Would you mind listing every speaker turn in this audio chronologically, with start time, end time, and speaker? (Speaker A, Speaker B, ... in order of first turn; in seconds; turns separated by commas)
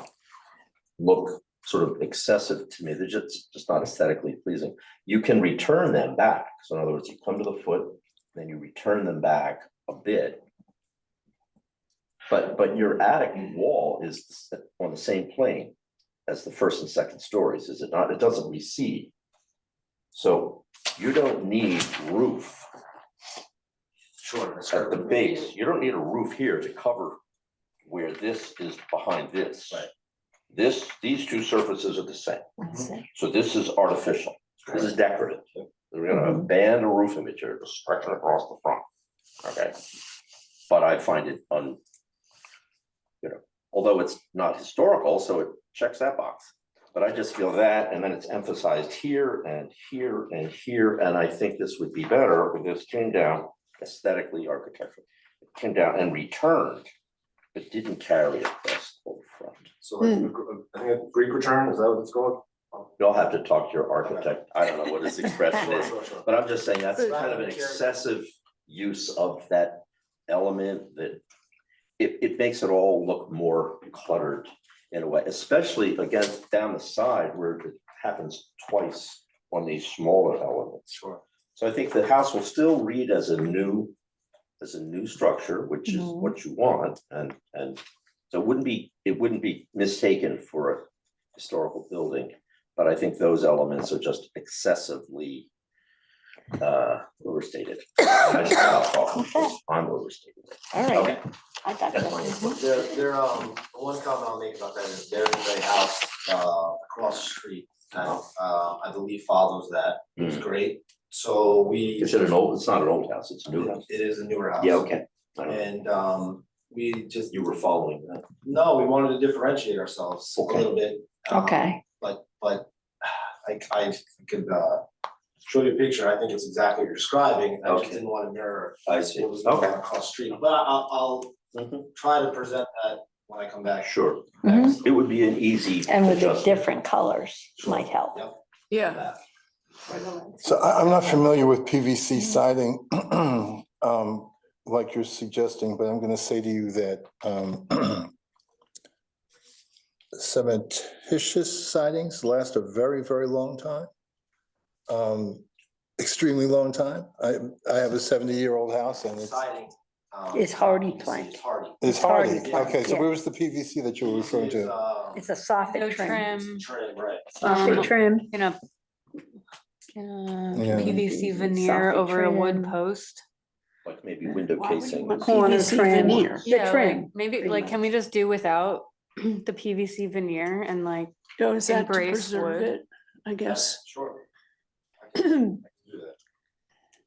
Speaker A: 1.0-10.4, Speaker A: 12.3-15.7, Speaker A: 16.3-19.1, Speaker A: 20.1-22.7, Speaker B: 24.2-25.5, Speaker A: 24.7-27.2, Speaker A: 27.9-29.9, Speaker A: 30.5-32.5, Speaker C: 32.6-33.0, Speaker A: 33.1-38.8, Speaker B: 34.6-34.9, Speaker A: 39.4-39.8, Speaker A: 40.7-41.8, Speaker A: 43.2-56.9, Speaker A: 57.5-59.7, Speaker B: 59.8-62.9, Speaker A: 63.0-71.2, Speaker B: 64.0-64.3, Speaker B: 65.5-66.3, Speaker B: 66.9-67.9, Speaker A: 72.0-81.0, Speaker B: 81.0-81.2, Speaker A: 81.5-83.9, Speaker A: 84.6-95.5, Speaker C: 85.9-86.3, Speaker A: 96.6-101.2, Speaker C: 99.2-99.5, Speaker C: 100.7-102.8, Speaker A: 101.9-102.6, Speaker B: 102.4-112.2, Speaker A: 108.0-108.2, Speaker A: 110.2-110.4, Speaker A: 112.0-113.9, Speaker B: 113.5-117.3, Speaker A: 114.6-115.6, Speaker A: 117.3-118.2, Speaker B: 118.4-124.8, Speaker A: 120.4-120.7, Speaker C: 121.3-121.8, Speaker B: 125.5-131.3, Speaker A: 127.7-128.0, Speaker A: 128.9-129.8, Speaker A: 131.5-131.9, Speaker B: 131.9-134.8, Speaker A: 133.8-136.7, Speaker C: 134.4-134.8, Speaker C: 135.9-138.3, Speaker B: 137.6-139.2, Speaker D: 138.7-139.1, Speaker B: 139.9-140.2, Speaker E: 140.4-148.1, Speaker E: 150.2-153.9, Speaker E: 154.9-155.4, Speaker E: 156.0-159.4, Speaker B: 159.1-162.9, Speaker C: 160.3-163.1, Speaker E: 161.8-164.8, Speaker B: 164.0-165.2, Speaker C: 165.1-166.4, Speaker F: 165.7-166.7, Speaker B: 166.3-167.9, Speaker C: 167.4-168.3, Speaker F: 167.4-168.6, Speaker F: 169.9-173.2, Speaker E: 170.5-171.0, Speaker C: 170.7-172.8, Speaker A: 173.8-176.5, Speaker D: 174.5-176.5, Speaker C: 175.2-177.8, Speaker F: 176.4-182.7, Speaker D: 181.4-183.8, Speaker B: 183.5-184.2, Speaker B: 185.0-186.2